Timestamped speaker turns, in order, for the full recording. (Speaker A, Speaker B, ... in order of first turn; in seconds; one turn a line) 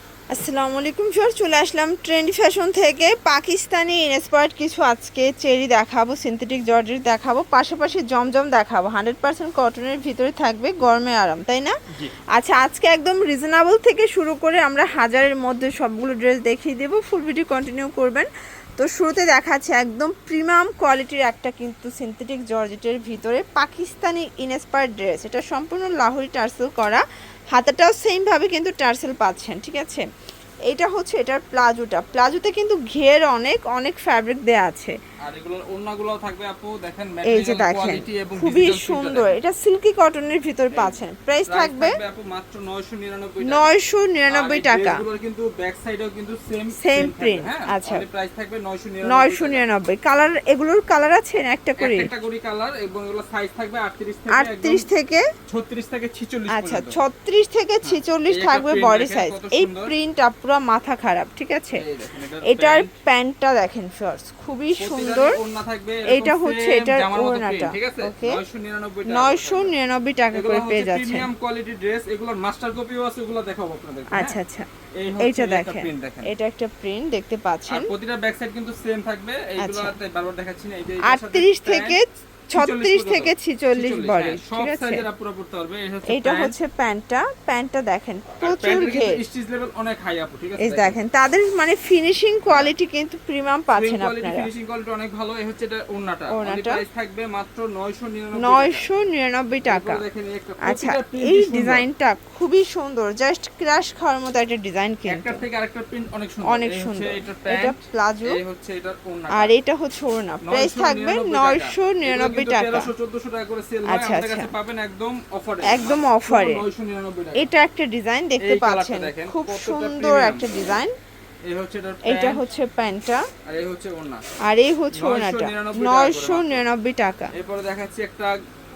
Speaker A: 0.3-11.8
Speaker A: 12.3-30.0
Speaker A: 30.7-34.9
Speaker B: 35.2-39.4
Speaker A: 37.2-42.0
Speaker B: 40.7-43.7
Speaker A: 43.5-45.0
Speaker B: 44.3-49.6
Speaker A: 46.8-48.0
Speaker A: 49.1-52.1
Speaker B: 51.8-54.9
Speaker A: 54.3-55.2
Speaker B: 55.5-57.0
Speaker A: 56.5-61.8
Speaker B: 57.8-59.9
Speaker B: 61.7-62.9
Speaker A: 62.5-65.4
Speaker B: 64.8-69.7
Speaker A: 66.1-68.4
Speaker A: 69.1-71.3
Speaker B: 70.3-74.4
Speaker A: 74.1-74.7
Speaker B: 75.0-76.3
Speaker A: 75.2-77.9
Speaker B: 77.7-82.0
Speaker A: 79.6-80.0
Speaker A: 81.0-85.0
Speaker B: 82.5-86.6
Speaker A: 86.1-89.2
Speaker B: 88.4-91.0
Speaker A: 90.6-94.5
Speaker B: 92.5-92.7
Speaker B: 93.8-98.8
Speaker A: 96.3-96.8
Speaker A: 98.4-100.0
Speaker B: 99.7-101.9
Speaker A: 100.6-105.4
Speaker B: 105.1-109.5
Speaker A: 106.5-108.4
Speaker A: 109.3-112.9
Speaker B: 110.5-117.5
Speaker A: 113.9-114.5
Speaker A: 115.6-116.6
Speaker A: 117.4-120.9
Speaker B: 118.4-120.8
Speaker B: 121.5-122.4
Speaker A: 122.0-123.2
Speaker B: 123.5-124.2
Speaker A: 124.5-127.3
Speaker B: 124.9-126.6
Speaker B: 127.3-128.3